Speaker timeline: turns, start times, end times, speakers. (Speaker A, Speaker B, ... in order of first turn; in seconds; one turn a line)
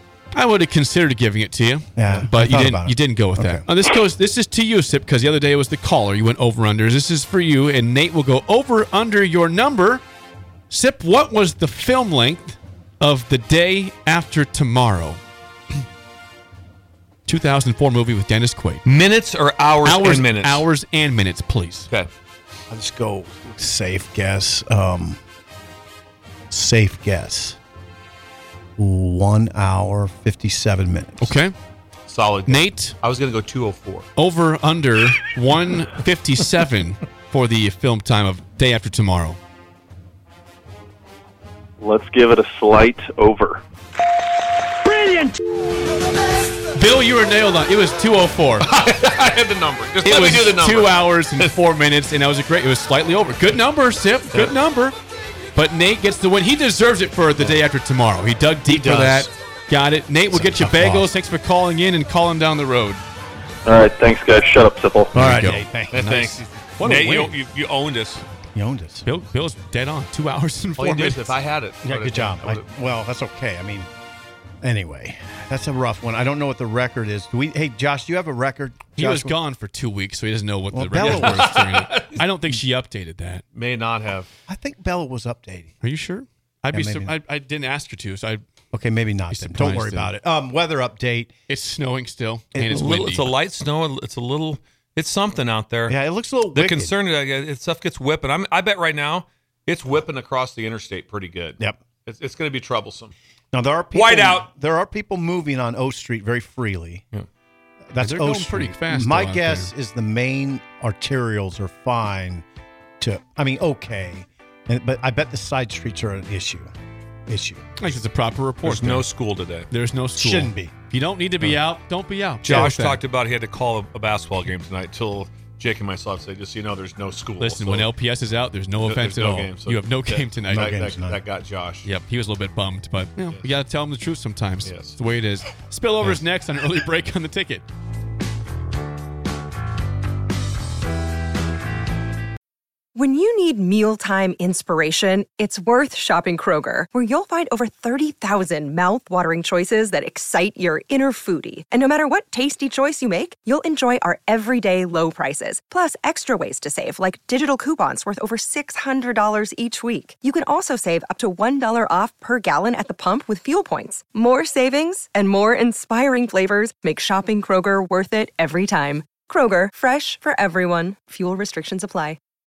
Speaker A: 0.3-10.0
Speaker B: 2.0-3.6
Speaker A: 10.7-15.2
Speaker A: 17.3-18.8
Speaker C: 18.8-20.6
Speaker A: 19.8-21.9
Speaker B: 22.7-25.2
Speaker B: 26.5-27.6
Speaker B: 28.8-31.3
Speaker A: 31.2-31.5
Speaker C: 32.1-34.1
Speaker A: 32.5-33.0
Speaker A: 34.2-39.4
Speaker D: 41.8-43.6
Speaker A: 46.7-48.7
Speaker C: 48.6-51.5
Speaker A: 50.0-54.9
Speaker A: 55.5-63.0
Speaker B: 58.7-59.3
Speaker C: 58.9-59.1
Speaker B: 60.3-61.1
Speaker D: 63.6-65.1
Speaker A: 65.1-67.3
Speaker B: 65.1-66.1
Speaker C: 65.9-68.2
Speaker B: 68.5-69.0
Speaker A: 69.0-71.3
Speaker C: 70.8-72.6
Speaker B: 71.8-73.9
Speaker B: 74.6-79.3
Speaker A: 79.0-83.4
Speaker B: 80.7-81.6
Speaker C: 81.0-82.2
Speaker C: 83.5-84.3
Speaker B: 84.5-85.8
Speaker A: 85.8-88.4
Speaker B: 86.7-87.1
Speaker B: 88.7-91.3
Speaker A: 89.3-90.1
Speaker A: 91.5-93.3
Speaker B: 92.5-93.0
Speaker C: 92.7-96.0
Speaker B: 95.9-96.9
Speaker C: 96.5-103.1
Speaker B: 103.5-107.0
Speaker C: 103.9-104.5
Speaker B: 107.9-112.4
Speaker A: 108.0-109.7
Speaker B: 113.0-116.7
Speaker B: 117.3-117.7
Speaker A: 117.8-119.0
Speaker C: 118.6-119.7
Speaker A: 119.7-123.0
Speaker B: 120.2-120.8
Speaker C: 122.4-127.9
Speaker A: 127.4-130.8
Speaker C: 128.8-131.8
Speaker B: 130.5-131.2
Speaker A: 131.8-137.6
Speaker C: 134.6-135.0
Speaker E: 142.9-172.2